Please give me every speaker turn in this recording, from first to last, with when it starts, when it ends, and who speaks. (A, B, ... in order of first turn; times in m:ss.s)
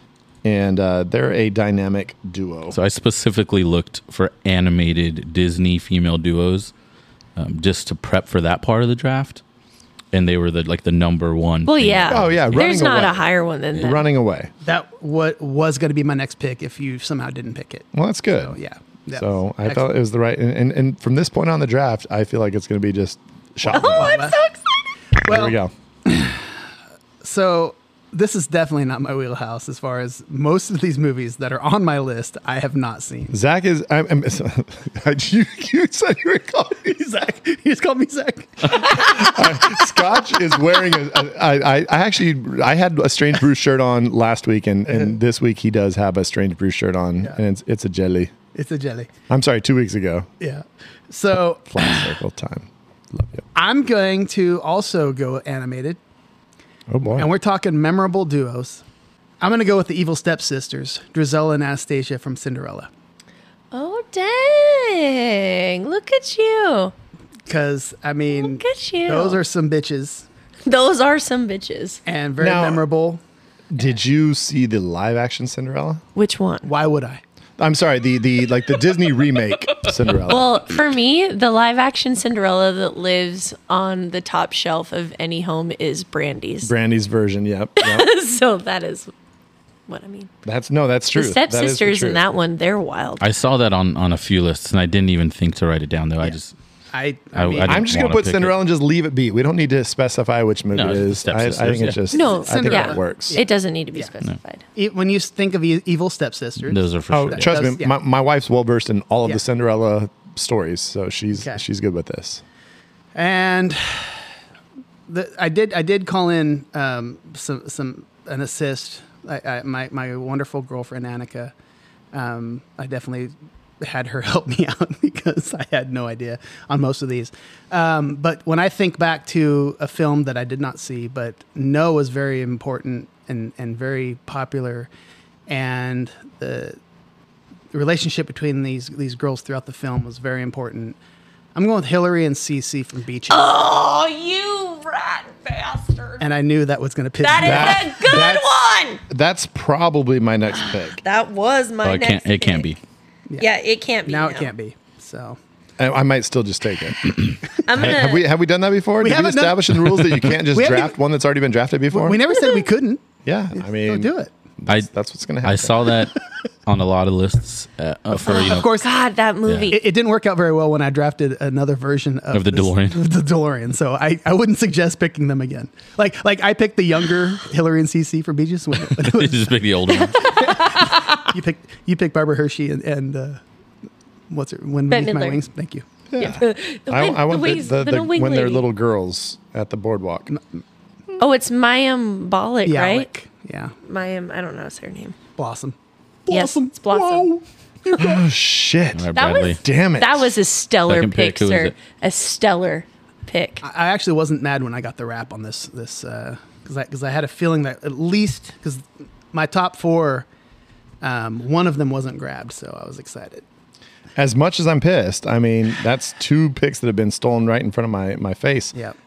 0:00.4-0:02.8 A
0:02.7-0:06.7 B
0:07.4-0:09.4 B
0:10.1-0:12.6 B
0:11.6-0:14.0 C
0:12.1-0:14.5 A
0:14.6-0:19.9 D
0:17.9-0:18.6 A
0:19.1-0:24.3 A
0:23.7-0:24.4 D
0:23.7-0:24.6 C
0:25.2-0:26.4 D
0:25.2-0:25.7 A
0:27.2-0:33.4 D
0:33.3-0:36.9 A
0:36.9-0:39.3 D
0:38.7-0:48.3 A
0:48.5-0:49.1 D
0:49.3-0:50.3 A
0:50.4-0:52.1 D
0:51.4-0:53.4 A
0:53.5-0:56.0 D
0:56.9-0:57.3 A
0:57.1-0:58.8 D
0:59.4-1:02.9 D
1:03.7-1:06.9 C
1:07.5-1:10.3 D
1:08.3-1:09.4 C
1:10.6-1:12.0 C
1:12.0-1:13.2 D
1:12.4-1:12.8 A
1:13.7-1:16.0 A
1:16.1-1:16.7 C
1:16.6-1:17.2 D
1:17.6-1:20.6 A
1:20.2-1:26.7 C
1:26.6-1:28.1 A
1:27.8-1:29.1 C
1:29.9-1:30.3 C
1:30.4-1:32.2 A
1:31.1-1:33.2 C
1:33.2-1:36.5 B
1:36.9-1:37.9 D
1:37.3-1:38.5 B
1:37.6-1:43.4 A
1:40.7-1:42.0 B
1:42.1-1:44.6 C
1:42.1-1:44.1 D
1:44.7-1:47.9 D
1:46.6-1:47.6 B
1:47.1-1:52.4 A
1:51.4-1:51.6 D
1:53.1-1:54.2 D
1:55.1-2:01.5 D
2:02.1-2:14.9 D
2:15.5-2:16.8 D
2:17.7-2:21.0 D
2:21.5-2:23.5 D
2:23.3-2:26.2 C
2:26.2-2:28.0 D
2:27.2-2:29.0 C
2:27.4-2:28.5 A
2:29.1-2:31.0 A
2:30.9-2:32.7 C
2:31.8-2:32.8 B
2:33.4-2:34.5 C
2:34.0-2:35.4 D
2:35.8-2:42.2 A
2:37.6-2:38.3 C
2:39.0-2:41.0 D
2:41.9-2:43.0 D
2:43.2-2:46.0 A
2:43.5-2:44.3 D
2:45.4-2:48.7 B
2:48.1-2:49.0 D
2:48.3-2:49.8 C
2:49.4-2:49.7 B
2:49.7-3:03.4 D
2:52.3-2:53.0 B
2:58.9-3:00.4 B
3:00.1-3:01.1 C
3:04.3-3:05.8 D
3:04.9-3:05.4 C
3:06.1-3:10.3 A
3:06.2-3:08.6 C
3:10.3-3:10.6 D
3:11.2-3:13.1 C
3:12.6-3:13.7 D
3:13.8-3:15.1 C
3:15.4-3:18.2 D
3:16.3-3:17.3 C
3:18.0-3:20.4 A
3:18.9-3:19.6 B
3:19.1-3:23.6 C
3:20.8-3:21.8 B
3:23.6-3:30.2 D
3:31.0-3:33.4 D
3:34.2-3:38.7 A